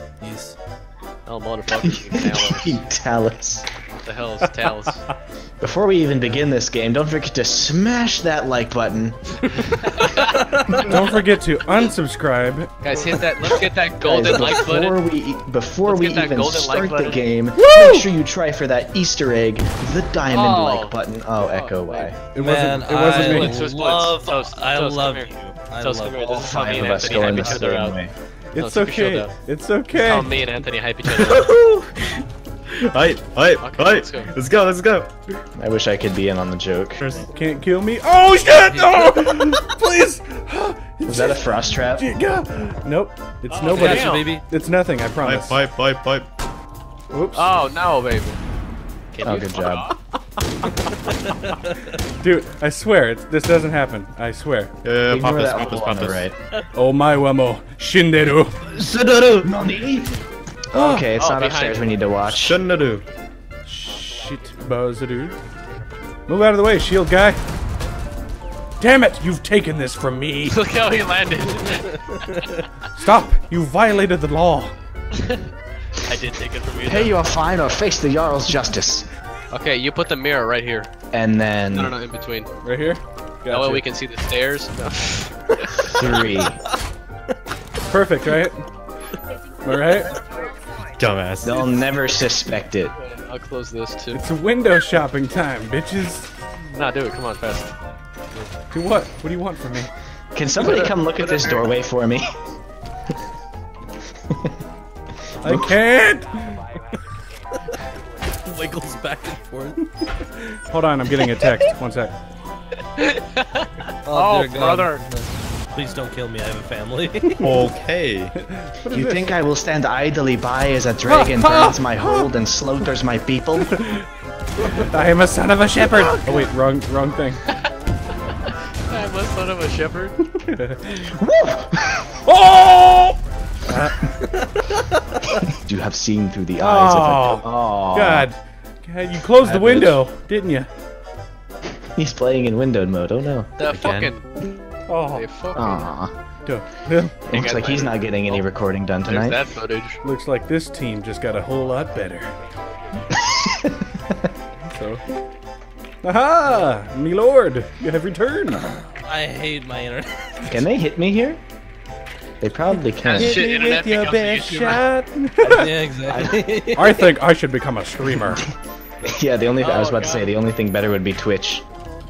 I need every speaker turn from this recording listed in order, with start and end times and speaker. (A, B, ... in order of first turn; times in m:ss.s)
0:00.2-0:00.6 A
0:01.3-0:02.8 B
0:01.8-0:03.7 C
0:04.0-0:05.0 B
0:04.6-0:04.9 D
0:05.6-0:09.9 C
0:09.8-0:10.3 B
0:10.2-0:10.8 A
0:10.7-0:12.7 D
0:12.8-0:15.0 B
0:14.0-0:22.2 C
0:14.3-0:14.7 A
0:15.8-0:17.2 B
0:17.6-0:18.1 D
0:20.3-0:22.2 B
0:22.3-0:23.6 D
0:22.3-0:27.7 A
0:23.1-0:28.0 B
0:26.3-0:28.1 C
0:28.5-0:30.3 D
0:28.6-0:29.3 B
0:29.9-0:31.5 B
0:31.0-0:35.4 E
0:33.6-0:34.3 B
0:35.6-0:37.0 C
0:37.0-0:37.3 E
0:37.3-0:45.6 D
0:38.7-0:39.5 A
0:41.1-0:42.1 C
0:43.5-0:44.3 B
0:43.7-0:44.4 A
0:45.2-0:46.3 E
0:47.1-0:47.6 D
0:47.4-0:48.4 B
0:49.1-0:49.9 B
0:49.2-0:49.9 C
0:51.1-0:51.7 A
0:52.0-0:54.7 D
0:54.8-0:56.3 E
0:55.1-0:56.4 C
0:56.7-0:58.6 D
0:58.8-0:59.6 E
0:59.4-1:00.2 C
1:00.7-1:02.6 C
1:00.7-1:01.1 D
1:01.2-1:01.9 B
1:02.3-1:03.0 E
1:03.7-1:05.4 D
1:06.3-1:07.4 D
1:08.8-1:10.6 D
1:10.5-1:12.3 B
1:12.9-1:14.7 D
1:16.1-1:17.1 B
1:16.8-1:19.1 C
1:19.5-1:20.9 B
1:21.1-1:21.9 C
1:21.7-1:22.5 B
1:22.6-1:23.8 D
1:23.5-1:25.9 B
1:25.6-1:26.4 A
1:25.8-1:26.6 C
1:27.9-1:28.6 D
1:29.6-1:30.2 D
1:31.0-1:31.7 E
1:31.4-1:32.9 C
1:33.0-1:34.2 B
1:34.1-1:36.3 D
1:36.7-1:37.7 B
1:38.7-1:39.9 D
1:40.3-1:42.3 C
1:40.6-1:41.7 B
1:45.4-1:45.8 C
1:45.4-1:46.6 D
1:48.4-1:49.8 A
1:50.1-1:52.2 D
1:53.0-1:55.0 B
1:54.0-1:57.4 A
1:57.4-1:58.3 E
1:57.4-1:57.7 D
1:58.4-1:59.3 D
1:58.9-2:03.8 C
2:01.1-2:02.3 D
2:03.6-2:04.1 D
2:04.6-2:07.4 D
2:08.9-2:10.2 B
2:10.4-2:11.1 D
2:11.0-2:12.0 C
2:12.2-2:14.1 D
2:15.4-2:18.3 C
2:16.6-2:20.7 D
2:19.4-2:20.0 E
2:22.0-2:23.5 C
2:23.6-2:24.2 B
2:23.6-2:24.1 E
2:24.9-2:25.2 D
2:25.1-2:25.8 B
2:25.6-2:26.1 C
2:26.5-2:27.3 D
2:27.3-2:29.4 C
2:27.3-2:28.4 B
2:29.0-2:30.0 B
2:30.0-2:32.3 D
2:33.2-2:33.8 C
2:34.7-2:35.0 D
2:36.0-2:38.6 D
2:38.5-2:40.6 A
2:40.5-2:41.4 C
2:42.4-2:43.4 C
2:43.0-2:44.8 B
2:43.1-2:45.7 D
2:45.4-2:47.1 A
2:46.1-2:46.4 C
2:46.7-2:48.5 D
2:49.0-2:51.6 C
2:49.6-2:50.3 B